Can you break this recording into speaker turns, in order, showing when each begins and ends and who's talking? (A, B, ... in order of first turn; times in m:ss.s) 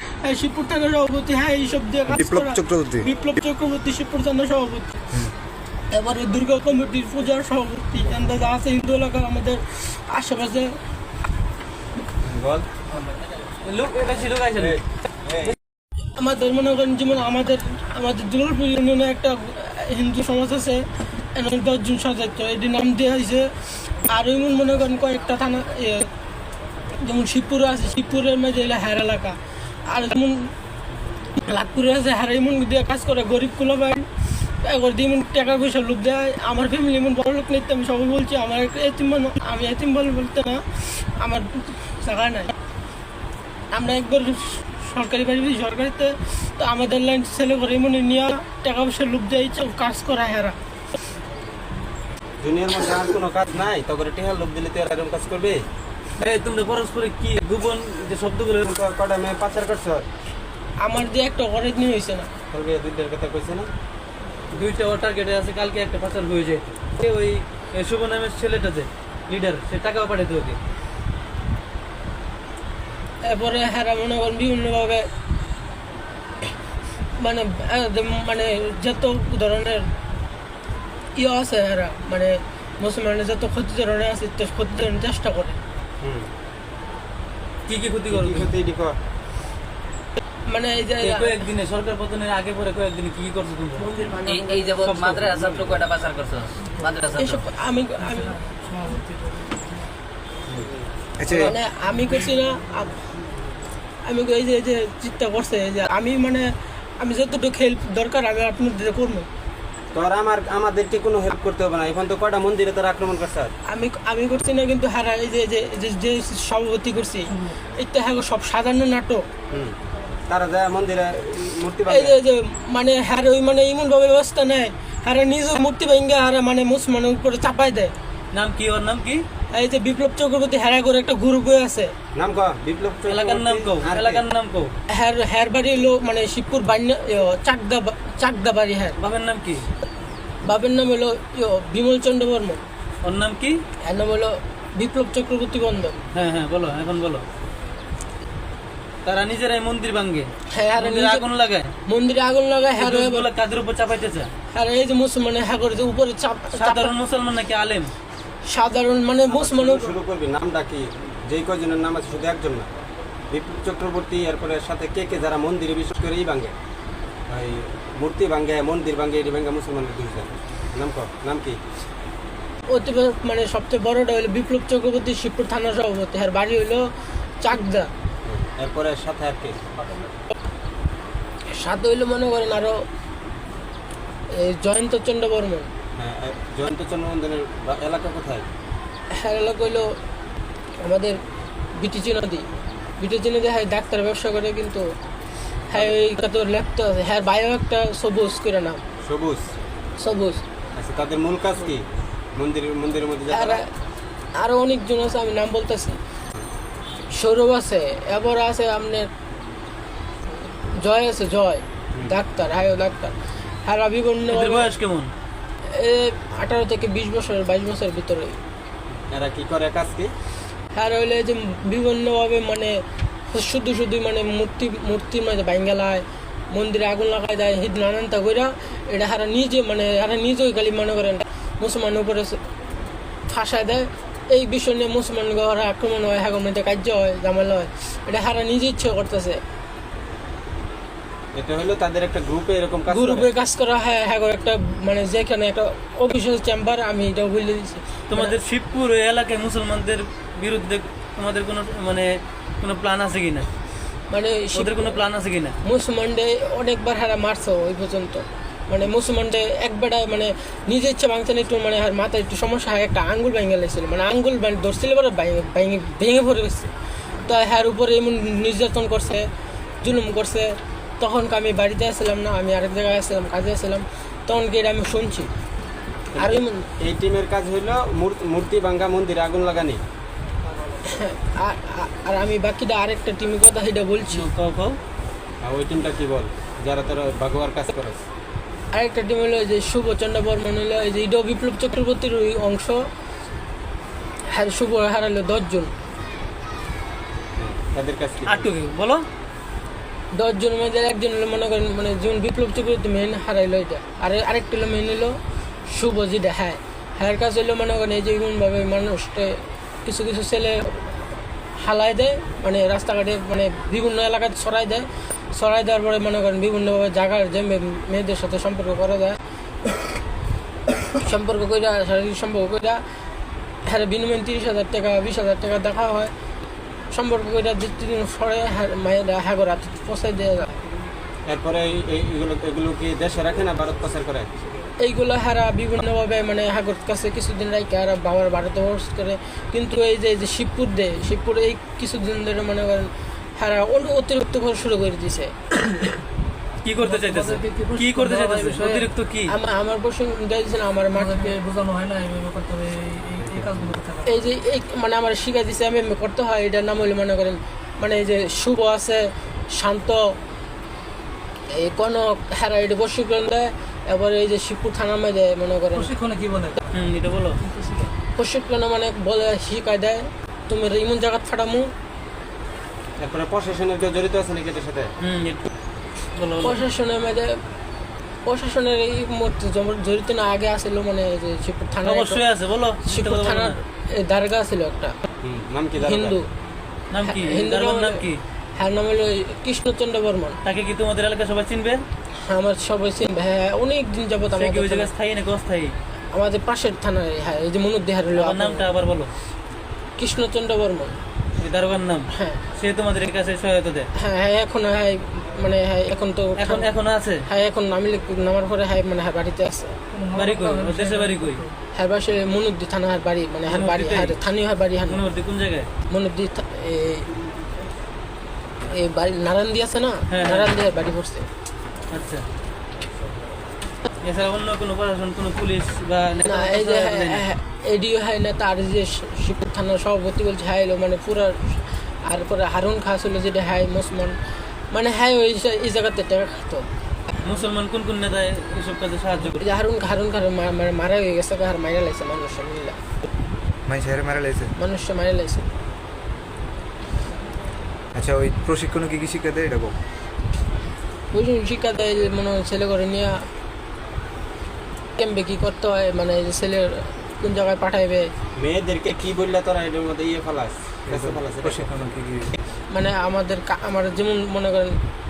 0:00.2-0:05.0 A
0:02.1-0:03.1 B
0:05.9-0:10.7 A
0:12.2-0:12.7 C
0:13.6-0:14.8 D
0:14.6-0:15.5 C
0:16.1-0:20.8 A
0:21.4-0:26.1 A
0:27.0-0:30.5 A
0:31.3-0:34.1 A
0:34.6-0:42.5 A
0:43.7-0:50.6 A
0:52.4-0:55.6 C
0:56.2-0:58.7 D
0:58.6-1:00.1 C
1:00.8-1:02.3 A
1:02.5-1:03.7 C
1:04.5-1:10.6 D
1:13.2-1:15.1 A
1:17.2-1:19.9 A
1:21.2-1:25.6 A
1:26.0-1:26.3 C
1:27.7-1:28.5 D
1:28.1-1:29.0 C
1:30.5-1:31.4 A
1:31.0-1:33.9 D
1:33.9-1:34.5 E
1:34.2-1:37.4 F
1:34.8-1:35.7 D
1:37.2-1:38.4 A
1:38.1-1:39.5 E
1:41.2-1:41.5 B
1:41.3-1:43.0 A
1:44.0-1:49.3 A
1:49.9-1:53.5 C
1:53.7-1:59.3 A
1:59.5-1:59.8 C
2:00.3-2:02.2 C
2:01.9-2:07.9 A
2:08.3-2:09.2 D
2:09.5-2:11.9 A
2:12.2-2:14.2 C
2:13.1-2:14.7 D
2:14.9-2:19.0 A
2:19.0-2:19.7 D
2:20.4-2:22.6 A
2:23.0-2:23.6 D
2:23.8-2:26.0 A
2:26.1-2:27.2 D
2:29.0-2:31.7 D
2:30.5-2:31.3 A
2:31.9-2:33.3 A
2:32.8-2:34.3 D
2:34.5-2:36.9 A
2:36.5-2:37.9 D
2:38.5-2:40.0 A
2:39.3-2:42.7 C
2:43.3-2:46.5 C
2:47.3-2:51.6 C
2:52.7-2:56.9 A
2:57.4-2:57.9 A
2:58.2-2:59.6 C
3:01.6-3:02.8 A
3:04.4-3:05.7 A
3:06.0-3:08.5 C
3:09.1-3:09.9 A
3:10.8-3:11.2 A
3:11.8-3:12.4 A
3:13.0-3:14.8 A
3:15.7-3:18.8 A
3:19.0-3:19.4 C
3:20.0-3:20.4 A
3:20.8-3:21.8 C
3:22.4-3:23.6 C
3:23.3-3:23.7 A
3:24.4-3:26.0 A
3:27.1-3:29.1 A
3:30.8-3:34.7 A
3:34.3-3:35.1 D
3:35.7-3:38.4 A
3:39.1-3:40.1 C
3:40.7-3:52.4 A
3:53.3-3:59.4 A
4:01.4-4:03.3 C
4:02.9-4:08.4 A
4:08.1-4:12.1 D
4:12.6-4:13.5 D
4:14.1-4:15.0 A
4:14.6-4:15.6 D
4:15.6-4:26.7 A
4:27.3-4:29.3 A
4:29.8-4:35.3 A
4:36.1-4:39.8 C
4:36.2-4:36.7 A
4:40.9-4:44.3 A
4:44.1-4:44.8 D
4:45.4-4:48.0 C
4:48.7-4:52.8 A
4:54.3-4:55.7 A
4:57.4-4:58.5 C
4:58.3-4:59.0 D
5:00.1-5:05.2 A
5:05.7-5:11.1 A
5:11.6-5:19.2 A
5:20.9-5:22.8 A
5:23.7-5:26.1 A
5:26.9-5:30.6 A
5:31.3-5:34.3 C
5:34.8-5:45.3 A
5:46.6-5:49.3 D
5:46.8-5:48.6 E
5:48.4-5:51.4 A
5:51.0-5:54.1 E
5:54.0-6:00.2 A
6:01.5-6:05.9 A
6:05.9-6:06.6 E
6:06.7-6:07.4 D
6:08.1-6:11.7 A
6:13.0-6:14.9 C
6:15.0-6:15.5 D
6:16.2-6:16.6 D
6:16.4-6:17.4 A
6:18.3-6:22.2 A
6:21.8-6:23.6 D
6:22.8-6:25.0 A
6:25.2-6:26.2 C
6:25.8-6:26.3 A
6:26.9-6:28.2 D
6:27.0-6:30.4 A
6:30.4-6:31.8 D
6:32.2-6:34.9 A
6:34.3-6:35.7 D
6:36.1-6:38.7 A
6:38.2-6:39.1 D
6:40.0-6:41.0 A
6:41.4-6:43.9 D
6:42.1-6:42.4 A
6:44.0-6:46.7 A
6:46.4-6:47.2 D
6:47.2-6:49.8 A
6:49.9-6:51.5 E
6:50.1-6:51.4 D
6:51.8-6:55.0 A
6:53.5-6:54.2 D
6:54.9-6:55.7 D
6:55.9-6:57.2 A
6:58.7-7:01.3 A
7:00.1-7:00.5 D
7:01.9-7:02.3 D
7:04.0-7:07.3 D
7:06.2-7:14.2 A
7:14.7-7:16.7 A
7:17.2-7:19.4 D
7:19.4-7:22.8 A
7:23.7-7:24.5 B
7:24.6-7:25.5 A
7:28.0-7:29.8 B
7:31.1-7:33.2 A
7:35.0-7:38.1 A
7:38.4-7:41.7 C
7:40.9-7:42.3 B
7:42.7-7:44.8 A